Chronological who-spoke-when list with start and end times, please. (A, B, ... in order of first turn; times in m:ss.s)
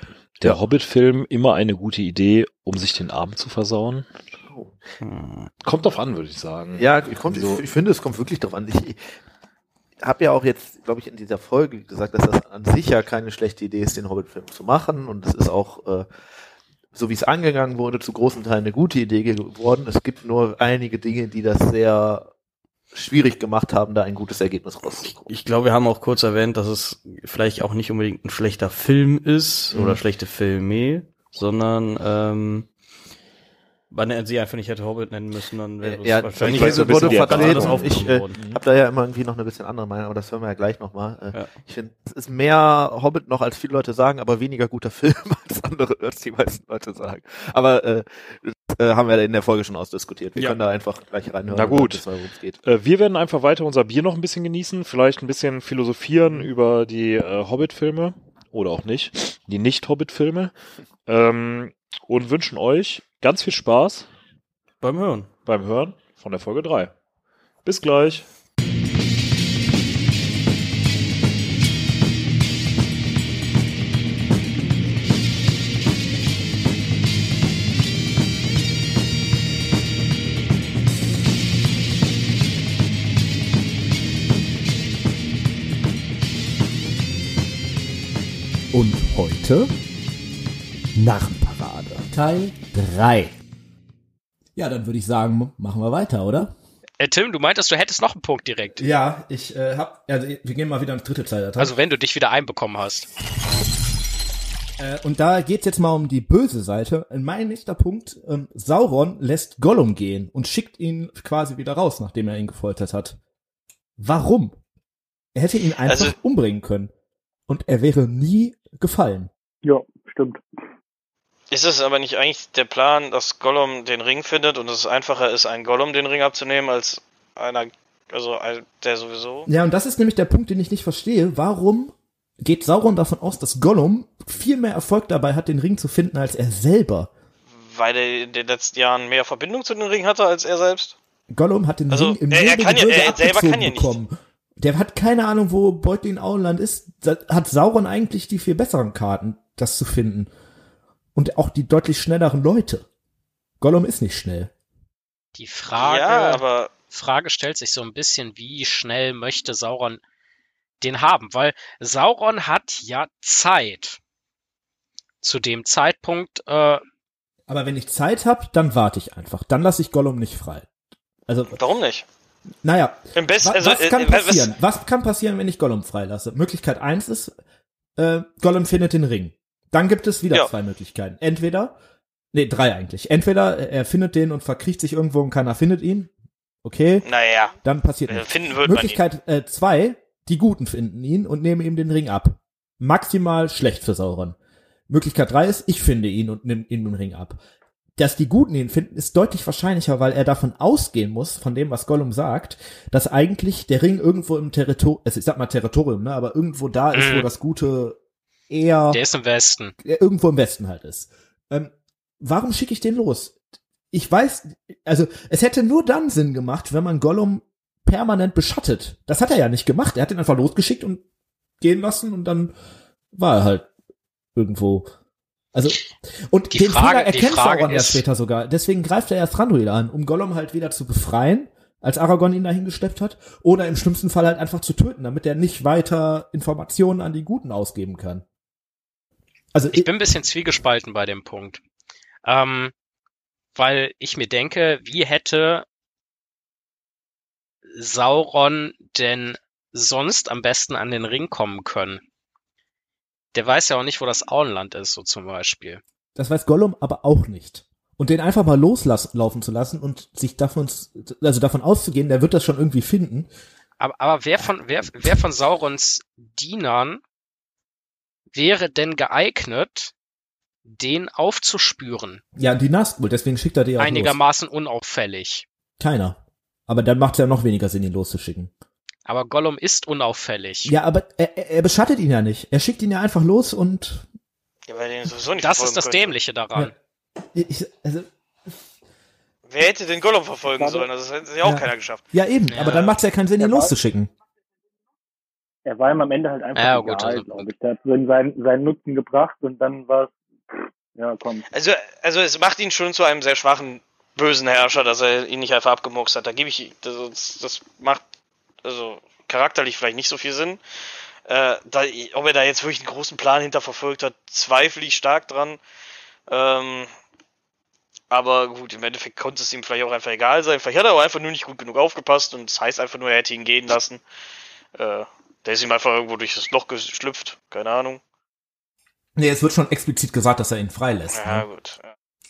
0:00.4-0:04.1 A
0:04.5-0:04.8 B
0:05.0-0:05.5 C
0:05.6-0:07.6 A
0:06.8-0:09.0 B
0:10.0-0:16.1 B
0:17.0-0:22.3 B
0:22.9-0:25.3 B
0:25.3-0:32.7 C
0:29.7-0:30.0 B
0:33.9-0:38.5 C
0:35.8-0:52.6 B
0:36.4-0:38.6 A
0:51.5-0:52.0 A
0:52.6-1:00.5 A
1:01.1-1:04.1 A
1:04.8-1:05.3 C
1:05.5-1:06.9 A
1:07.6-1:08.3 A
1:28.7-1:29.7 D
1:31.0-1:33.3 D
1:34.6-1:36.5 D
1:37.0-1:38.8 E
1:38.8-1:41.7 D
1:41.6-1:43.1 E
1:44.8-1:53.2 D
1:54.0-1:54.6 D
1:55.4-1:56.9 D
1:55.8-1:56.2 F
1:57.5-1:59.3 D
1:59.6-2:00.4 G
2:01.5-2:09.5 F
2:09.5-2:17.1 D
2:17.6-2:21.0 F
2:21.3-2:30.3 D
2:21.9-2:24.0 F
2:31.2-2:32.9 D
2:33.6-2:34.5 D
2:35.4-2:40.0 E
2:35.7-2:36.7 F
2:40.8-2:44.0 E
2:45.2-2:46.8 E
2:47.5-2:50.7 D
2:51.3-2:51.6 D
2:51.6-2:52.1 F
2:52.6-2:57.3 D
2:53.2-2:54.5 F
2:58.0-3:01.8 D
3:02.3-3:06.1 D
3:06.6-3:07.1 D
3:07.0-3:07.6 F
3:07.6-3:14.4 D
3:08.1-3:09.0 F
3:14.9-3:17.4 D
3:18.0-3:28.0 D
3:26.9-3:27.3 E
3:28.5-3:29.0 D
3:28.9-3:29.7 E
3:29.8-3:33.3 D
3:33.9-3:41.0 D
3:41.6-3:42.5 D
3:43.1-3:43.7 D
3:44.4-3:44.9 D
3:45.5-3:58.2 D
3:46.5-3:48.0 E
3:59.5-3:59.9 D
3:59.7-4:01.6 E
4:02.2-4:02.7 E
4:03.6-4:05.6 E
4:07.7-4:12.0 E
4:13.3-4:15.8 E
4:16.2-4:23.3 D
4:23.8-4:27.0 E
4:28.3-4:29.9 E
4:30.6-4:32.2 E
4:32.4-4:34.2 D
4:33.8-4:35.5 E
4:35.8-4:38.5 D
4:39.1-4:40.7 E
4:40.6-4:44.1 D
4:44.7-4:46.1 F
4:45.4-4:46.7 E
4:47.3-4:48.1 D
4:49.5-4:52.0 F
4:50.4-4:50.9 G
4:51.4-4:54.1 D
4:52.5-4:52.9 E
4:53.4-4:53.7 G
4:55.7-5:01.5 G
4:56.6-4:57.5 E
5:01.5-5:08.0 F
5:08.6-5:10.6 F
5:11.3-5:15.6 F
5:16.3-5:16.9 F
5:18.1-5:24.0 F
5:24.8-5:28.0 F
5:29.2-5:31.5 D
5:31.1-5:31.9 F